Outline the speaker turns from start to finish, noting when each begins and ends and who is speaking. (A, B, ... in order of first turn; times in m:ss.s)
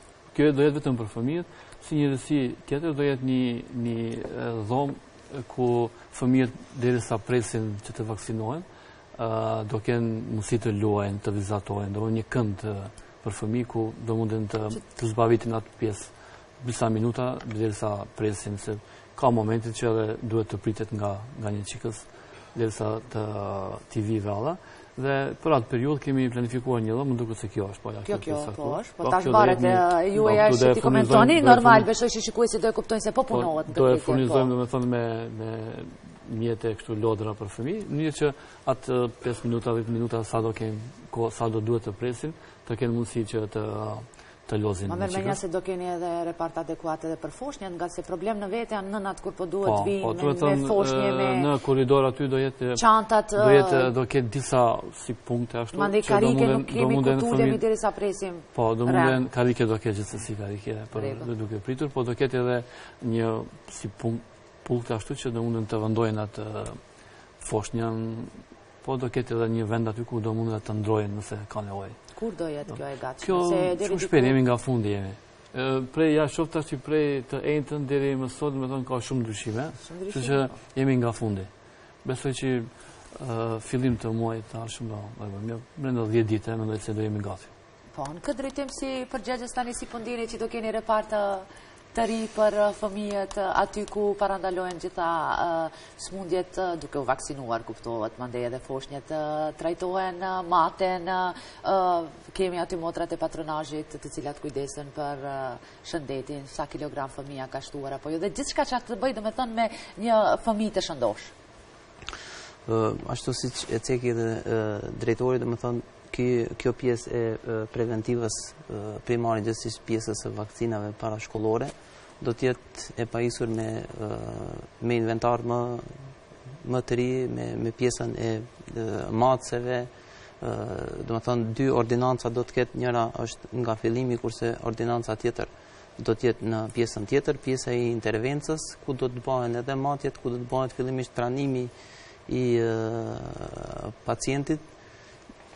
0:00.3-0:31.9 A
0:28.0-0:34.5 B
0:33.3-0:45.4 A
0:44.9-0:51.5 B
0:49.6-0:57.6 A
0:52.8-0:53.9 B
0:55.7-0:59.2 B
0:58.5-1:06.8 A
1:00.9-1:01.3 B
1:07.4-1:12.0 A
1:12.1-1:14.4 B
1:13.2-1:21.5 A
1:19.8-1:20.5 B
1:22.0-1:27.5 A
1:27.9-1:51.3 B
1:52.6-2:21.7 C
2:22.3-2:24.7 C